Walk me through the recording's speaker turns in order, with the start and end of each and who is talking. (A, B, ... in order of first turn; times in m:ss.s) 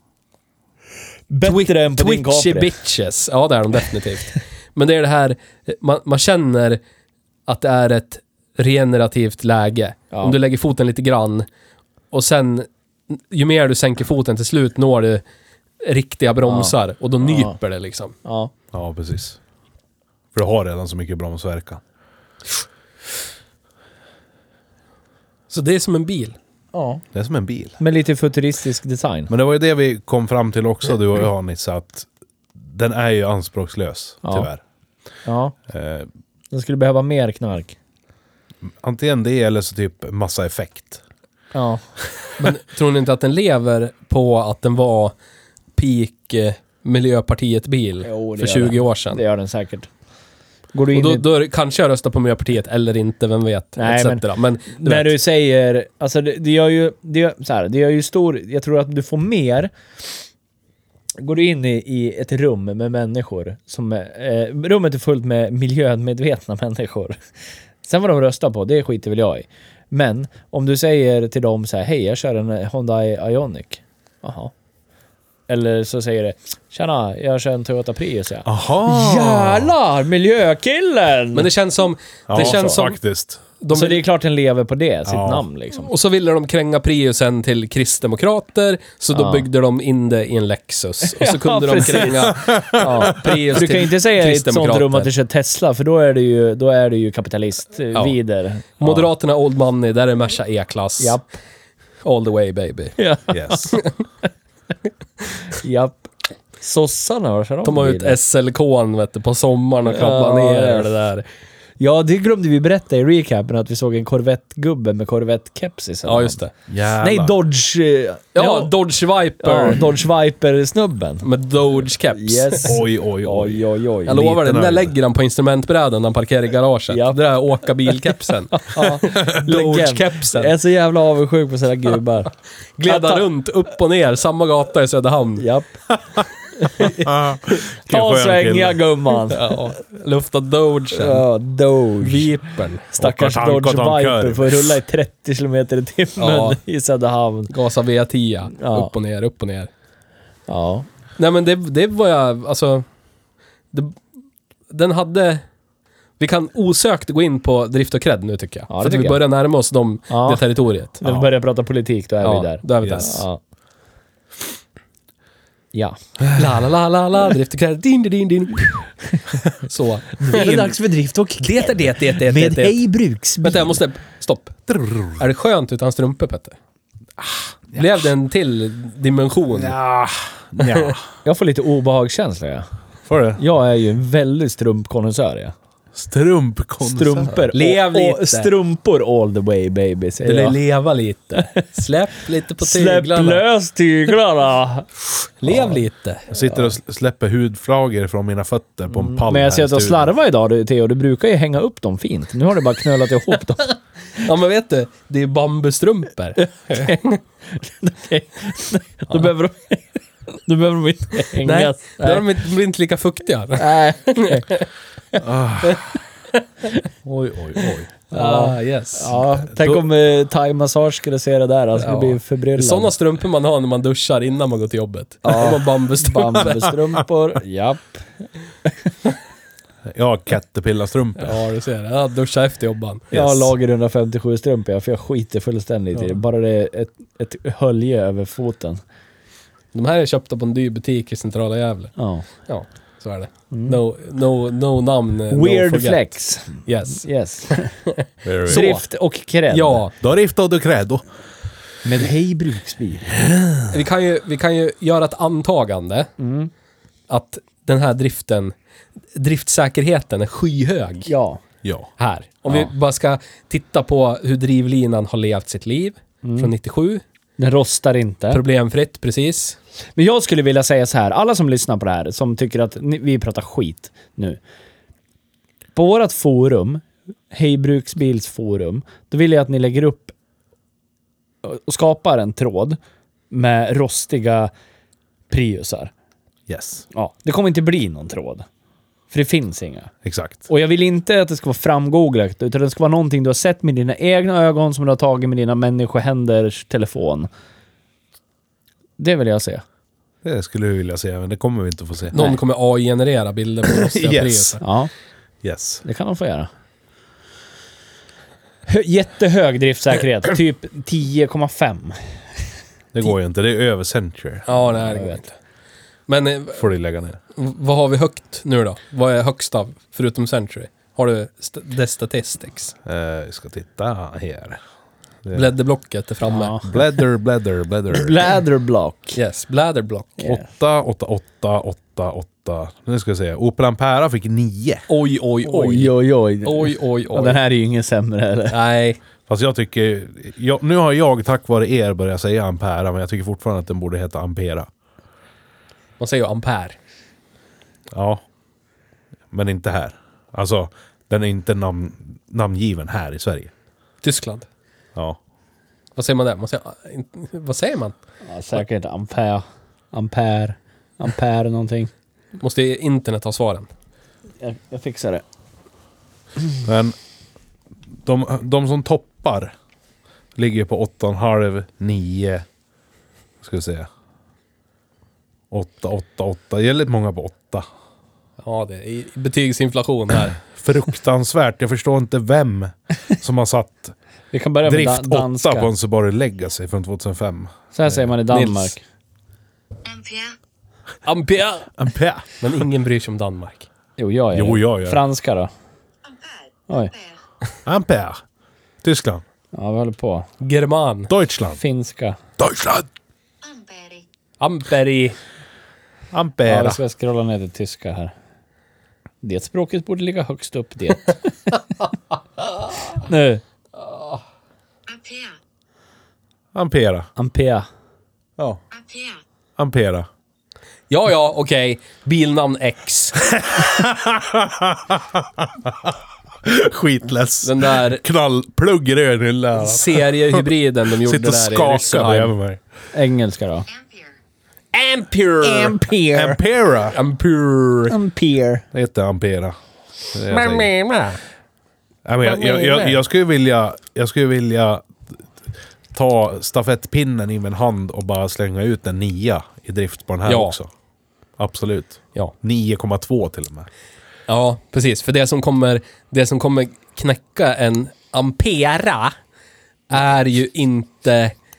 0:01.3-0:02.8 A
0:01.4-0:06.8 B
0:07.5-0:11.5 B
0:10.1-0:10.4 A
0:12.1-0:15.2 B
0:15.8-0:18.2 B
0:16.4-0:17.6 A
0:18.2-0:18.5 A
0:18.7-0:19.4 C
0:20.3-0:21.8 C
0:25.5-0:26.4 B
0:26.7-0:27.0 A
0:27.1-0:27.8 C
0:27.8-0:29.3 A
0:29.3-0:34.6 C
0:34.2-0:34.5 A
0:35.2-0:35.6 A
0:35.7-0:36.1 C
0:36.5-0:37.8 A
0:38.8-0:41.0 C
0:41.5-0:41.8 A
0:42.4-0:45.1 B
0:45.8-0:49.2 B
0:48.0-0:49.9 A
0:50.7-0:51.2 A
0:50.9-0:55.2 B
0:53.8-0:59.7 A
1:01.2-1:07.2 A
1:07.8-1:14.5 A
1:15.5-1:21.5 A
1:18.4-1:19.7 C
1:21.3-1:23.0 B
1:22.3-1:23.4 C
1:22.3-1:22.8 A
1:23.6-1:24.0 B
1:23.7-1:25.9 A
1:25.1-1:25.4 C
1:25.7-1:35.1 B
1:29.1-1:29.5 A
1:31.0-1:39.1 A
1:32.3-1:33.2 C
1:38.8-1:41.2 B
1:41.0-1:41.3 A
1:42.0-1:43.0 B
1:43.0-1:43.8 A
1:43.3-1:43.8 C
1:45.6-1:48.2 A
1:47.6-1:51.2 B
1:49.9-1:51.0 A
1:51.8-1:56.4 A
1:56.1-1:56.5 B
1:56.7-1:57.4 C
1:57.0-1:58.7 A
1:58.4-1:59.8 B
1:59.4-2:01.3 A
2:01.2-2:02.7 B
2:02.1-2:04.3 A
2:02.7-2:04.9 C
2:04.1-2:10.5 B
2:06.9-2:07.2 A
2:08.5-2:12.3 A
2:12.8-2:15.4 B
2:12.8-2:13.2 A
2:15.4-2:15.8 A
2:16.6-2:17.1 A
2:17.0-2:18.8 C
2:17.9-2:19.6 A
2:19.3-2:21.3 B
2:20.9-2:22.3 A
2:22.0-2:22.9 B
2:22.9-2:27.5 A
2:23.0-2:24.8 C
2:26.2-2:26.6 B
2:27.5-2:29.7 B
2:28.6-2:28.9 A
2:30.5-2:30.9 A
2:31.2-2:32.9 B
2:33.7-2:34.0 B
2:34.7-2:35.4 B
2:36.2-2:41.0 B
2:38.7-2:39.2 A
2:40.1-2:40.4 A
2:41.0-2:43.4 A
2:42.2-2:43.2 B
2:46.3-2:48.9 B
2:49.5-2:50.8 B
2:50.2-2:53.8 A
2:51.4-2:52.8 B
2:53.4-2:56.6 B
2:54.7-2:55.2 C
2:57.2-2:58.0 C
2:57.7-2:59.8 B
2:59.6-3:01.0 C
3:01.2-3:02.7 A
3:03.1-3:03.4 C
3:03.4-3:05.5 A
3:06.0-3:07.5 C
3:06.8-3:10.6 A
3:07.5-3:08.5 B
3:10.2-3:13.4 B
3:12.6-3:14.9 A
3:15.4-3:16.3 B
3:15.5-3:15.8 A
3:16.3-3:20.1 C
3:18.9-3:23.8 A
3:24.2-3:27.0 B
3:26.4-3:29.8 A
3:30.4-3:32.3 A
3:31.4-3:34.7 B
3:33.6-3:34.5 A
3:35.2-3:36.0 C
3:37.0-3:37.9 C
3:38.1-3:39.2 B
3:38.1-3:42.9 A
3:39.5-3:39.8 C
3:41.8-3:46.7 B
3:45.2-3:48.9 A
3:49.9-3:51.4 C
3:51.2-3:53.1 B
3:53.1-3:53.5 C
3:53.1-3:58.8 A
3:59.7-4:08.8 B
4:02.0-4:02.3 A
4:03.5-4:03.8 A
4:05.3-4:07.7 A
4:08.2-4:08.7 C
4:08.5-4:09.8 A
4:09.5-4:09.9 B
4:10.0-4:11.0 C
4:11.8-4:13.1 A
4:13.7-4:16.1 B
4:16.2-4:16.5 A
4:17.1-4:18.5 B
4:19.2-4:21.1 B
4:21.1-4:21.4 A
4:21.6-4:21.9 C
4:22.0-4:27.0 B
4:26.2-4:26.5 A
4:27.4-4:28.4 A
4:28.3-4:29.6 B
4:30.0-4:34.4 A
4:35.8-4:40.1 A
4:41.4-4:42.8 A
4:43.3-4:44.5 A
4:45.3-4:45.9 A
4:46.5-4:46.8 C
4:46.9-4:48.5 A
4:49.1-4:49.9 A
4:50.0-4:50.4 C
4:50.5-4:57.3 A
4:59.0-4:59.6 A
5:00.2-5:02.2 C
5:02.1-5:04.6 B
5:03.9-5:04.6 C
5:04.6-5:04.9 A
5:05.4-5:05.8 C
5:05.8-5:06.5 A
5:08.7-5:12.2 A
5:12.9-5:14.5 C
5:14.5-5:15.4 B
5:14.7-5:15.2 A
5:16.1-5:16.6 B
5:16.6-5:17.2 C
5:17.4-5:22.8 B
5:22.8-5:24.6 C
5:25.3-5:26.6 B
5:26.3-5:26.7 A
5:26.6-5:28.2 C
5:27.9-5:29.2 A
5:29.2-5:30.2 B
5:30.2-5:34.9 C
5:34.9-5:37.4 B
5:35.4-5:38.6 A
5:38.5-5:39.0 B
5:39.3-5:44.7 C
5:46.0-5:46.8 B
5:47.9-5:48.2 C
5:49.3-5:53.5 C
5:54.0-5:54.5 B
5:56.0-5:58.0 B
5:58.3-6:01.9 A
6:02.4-6:03.7 B
6:04.4-6:05.2 A
6:06.6-6:07.0 C
6:08.0-6:09.5 C
6:10.4-6:12.4 C
6:13.4-6:13.9 C
6:15.5-6:17.7 C
6:18.4-6:20.4 B
6:20.4-6:24.0 C
6:24.3-6:25.7 A
6:24.6-6:28.1 C
6:27.7-6:28.8 A
6:28.3-6:28.8 B
6:31.0-6:31.7 B
6:31.8-6:32.4 C
6:32.4-6:33.7 B
6:34.0-6:35.5 A
6:34.3-6:35.0 C
6:37.6-6:38.2 C
6:38.8-6:39.2 C
6:39.5-6:40.3 A
6:40.4-6:41.1 B
6:41.1-6:41.6 C
6:41.6-6:42.2 A
6:42.4-6:42.9 C
6:44.4-6:45.2 B
6:46.1-6:46.8 C
6:46.4-6:48.1 A
6:49.2-6:51.3 A
6:53.0-6:53.4 A
6:56.6-6:57.1 C
6:57.2-6:57.7 A
6:59.6-7:00.1 C
7:00.9-7:03.2 B
7:03.3-7:12.6 C
7:07.4-7:08.0 B
7:09.6-7:12.3 B
7:12.9-7:13.7 A
7:14.7-7:15.9 B
7:15.4-7:16.4 A
7:16.1-7:17.0 C
7:16.9-7:18.0 B
7:17.9-7:18.6 A
7:18.7-7:19.6 C
7:20.1-7:20.7 C
7:20.3-7:21.2 B
7:22.1-7:25.2 C
7:22.4-7:23.0 B
7:25.9-7:30.7 C
7:30.3-7:30.6 B
7:31.4-7:33.7 C
7:34.3-7:39.2 B
7:39.9-7:41.3 B